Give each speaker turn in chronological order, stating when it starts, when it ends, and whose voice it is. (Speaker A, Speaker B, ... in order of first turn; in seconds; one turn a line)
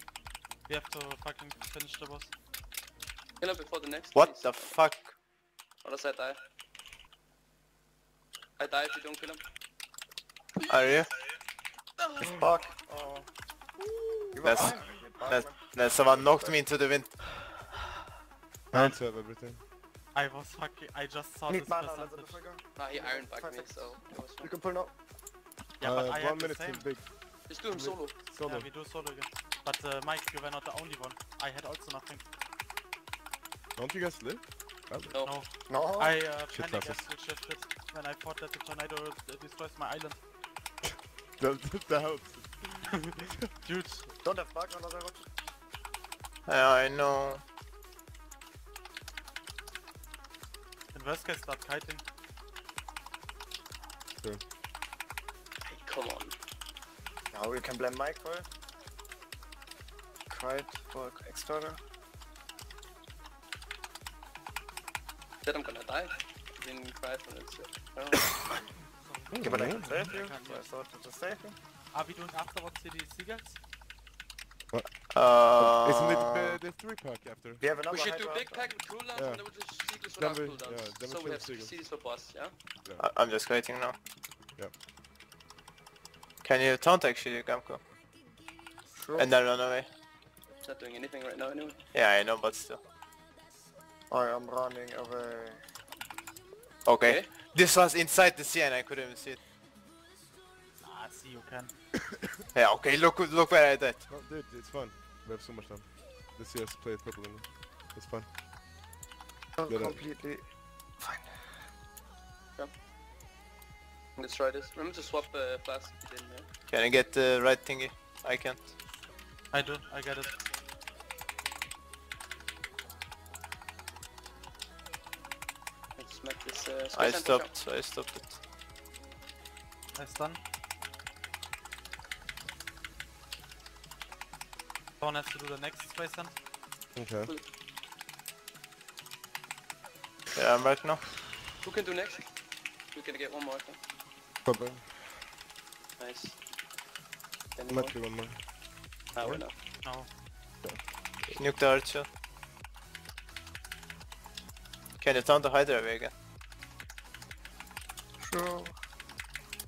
Speaker A: 0.7-2.3
Speaker B: 3.4-4.8
Speaker C: 4.1-5.1
Speaker B: 5.8-6.4
Speaker B: 8.6-9.4
Speaker C: 10.7-11.1
Speaker D: 12.2-13.3
Speaker D: 14.3-16.6
Speaker C: 14.4-17.2
Speaker E: 18.7-19.6
Speaker A: 20.1-22.4
Speaker D: 21.5-24.9
Speaker B: 22.8-24.5
Speaker E: 25.8-28.7
Speaker A: 25.8-27.0
Speaker B: 27.5-28.2
Speaker A: 28.2-32.2
Speaker E: 33.8-35.2
Speaker A: 35.2-40.2
Speaker D: 35.7-36.2
Speaker E: 36.5-37.0
Speaker E: 40.8-43.5
Speaker A: 42.9-44.1
Speaker D: 44.2-45.3
Speaker C: 46.5-47.4
Speaker A: 50.9-52.0
Speaker B: 55.6-56.4
Speaker D: 57.3-58.5
Speaker D: 60.3-61.8
Speaker B: 65.4-68.5
Speaker A: 68.8-70.7
Speaker E: 69.3-70.1
Speaker D: 69.4-71.6
Speaker A: 71.9-73.6
Speaker E: 74.7-75.0
Speaker C: 75.1-76.6
Speaker E: 75.5-77.6
Speaker D: 77.6-78.7
Speaker B: 77.9-82.5
Speaker E: 79.1-79.5
Speaker E: 80.1-81.8
Speaker C: 83.0-84.0
Speaker C: 86.4-87.8
Speaker D: 88.9-89.3
Speaker C: 89.2-89.9
Speaker B: 90.6-91.8
Speaker C: 91.9-92.8
Speaker D: 94.1-95.6
Speaker C: 96.8-99.4
Speaker B: 97.0-97.3
Speaker A: 100.8-101.7
Speaker C: 102.5-104.0
Speaker E: 104.1-108.3
Speaker D: 109.6-110.5
Speaker E: 109.7-110.0
Speaker D: 111.0-111.3
Speaker B: 114.2-116.5
Speaker C: 116.7-118.7
Speaker A: 119.5-120.4
Speaker B: 126.0-127.5
Speaker C: 126.9-128.4
Speaker A: 129.9-130.4
Speaker A: 135.0-136.4
Speaker E: 136.9-137.3
Speaker C: 140.3-141.1
Speaker B: 141.6-142.3
Speaker B: 142.9-143.8
Speaker E: 144.4-145.2
Speaker B: 146.0-146.4
Speaker B: 147.6-148.0
Speaker E: 147.7-148.5
Speaker B: 149.1-149.6
Speaker E: 149.2-149.4
Speaker A: 149.8-150.1
Speaker E: 150.6-151.4
Speaker C: 151.3-152.1
Speaker C: 155.0-156.1
Speaker D: 158.2-158.8